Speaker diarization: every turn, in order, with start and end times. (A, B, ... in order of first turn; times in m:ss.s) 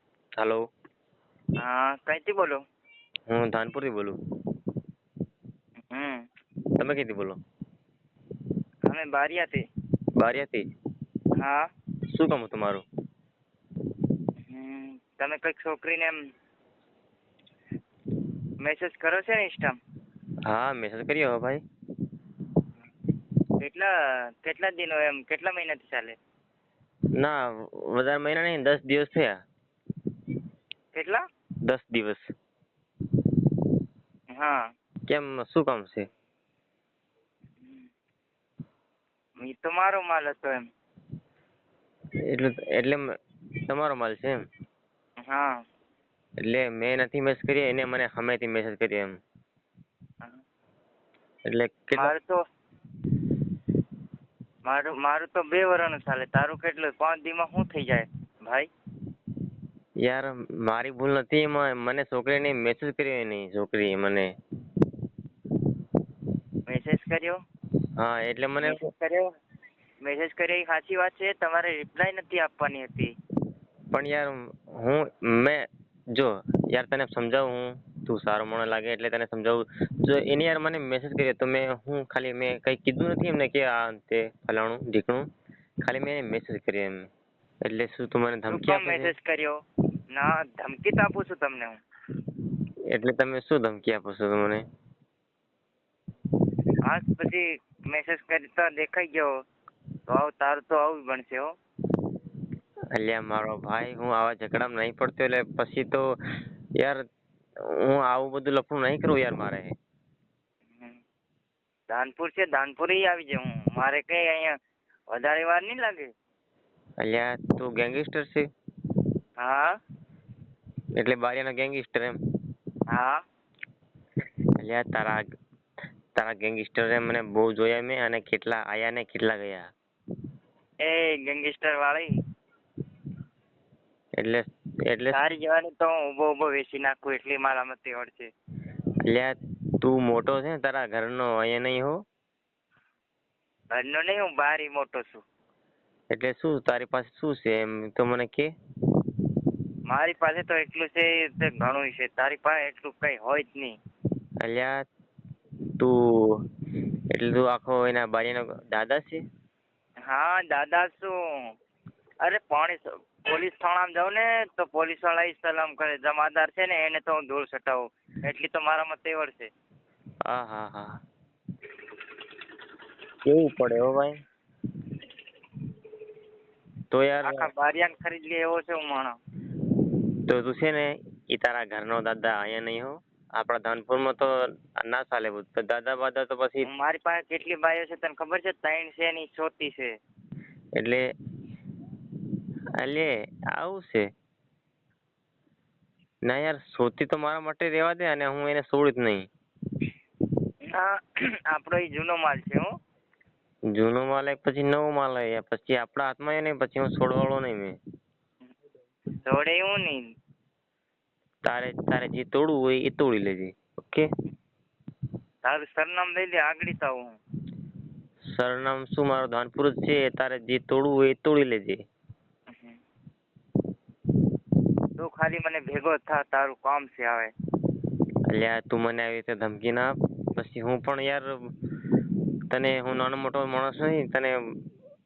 0:00.4-0:00.6 A
0:01.6-0:02.6 B
0:03.3-0:04.2 A
0:05.9-0:06.2 B
0:06.8-0:07.4 A
0:08.9-0:09.6 B
0:10.2-0:10.6 A
0:11.4-0:11.7 B
0:12.1-0:12.8 A
0:14.5-0:16.2 B
0:18.6-0:19.8 B
0:20.4-0:21.6 A
0:23.6-0:23.9 B
0:24.4-0:26.2 B
0:27.2-0:29.4 A
0:30.9-0:31.2 B
0:31.6-0:32.3 A
0:34.3-0:34.6 B
0:35.1-0:36.1 A
0:37.6-0:37.9 B
0:39.4-0:40.6 B
0:42.2-0:43.0 A
0:43.6-0:44.4 A
0:45.2-0:45.6 B
0:46.4-0:49.1 A
0:51.5-0:52.1 A
0:52.0-0:52.4 B
0:54.6-0:58.7 B
1:00.0-1:04.3 A
1:06.7-1:07.4 B
1:08.0-1:08.9 A
1:08.6-1:09.3 B
1:10.0-1:13.1 B
1:13.9-1:25.3 A
1:25.8-1:27.1 A
1:27.6-1:29.1 A
1:28.5-1:29.6 B
1:30.1-1:31.8 B
1:32.9-1:34.6 A
1:36.8-1:39.3 B
1:40.1-1:41.5 B
1:42.9-1:46.1 A
1:47.6-1:49.7 A
1:51.9-1:54.5 B
1:55.1-1:56.1 B
1:57.0-1:58.5 A
1:59.4-1:59.7 B
2:01.0-2:02.2 A
2:02.9-2:03.2 B
2:04.6-2:05.2 A
2:06.1-2:09.7 A
2:10.8-2:12.1 B
2:14.2-2:15.2 A
2:15.1-2:18.3 B
2:19.0-2:22.0 A
2:23.7-2:25.2 B
2:26.1-2:28.5 A
2:29.9-2:33.7 B
2:34.4-2:34.8 A
2:35.8-2:36.4 A
2:37.1-2:39.2 A
2:40.1-2:41.1 B
2:42.2-2:49.5 B
2:50.3-2:50.9 A
2:53.2-2:54.2 A
2:56.9-2:57.5 A
2:57.2-2:59.2 B
3:00.3-3:06.7 A
3:06.6-3:10.0 B
3:10.8-3:11.0 A
3:12.8-3:14.1 A
3:16.3-3:19.2 A
3:20.7-3:22.7 B
3:23.7-3:27.8 A
3:29.2-3:30.0 B
3:31.4-3:34.1 A
3:35.4-3:37.1 B
3:38.3-3:41.8 A
3:42.5-3:42.8 B
3:45.0-3:47.3 B
3:48.3-3:51.3 A
3:52.5-3:54.3 A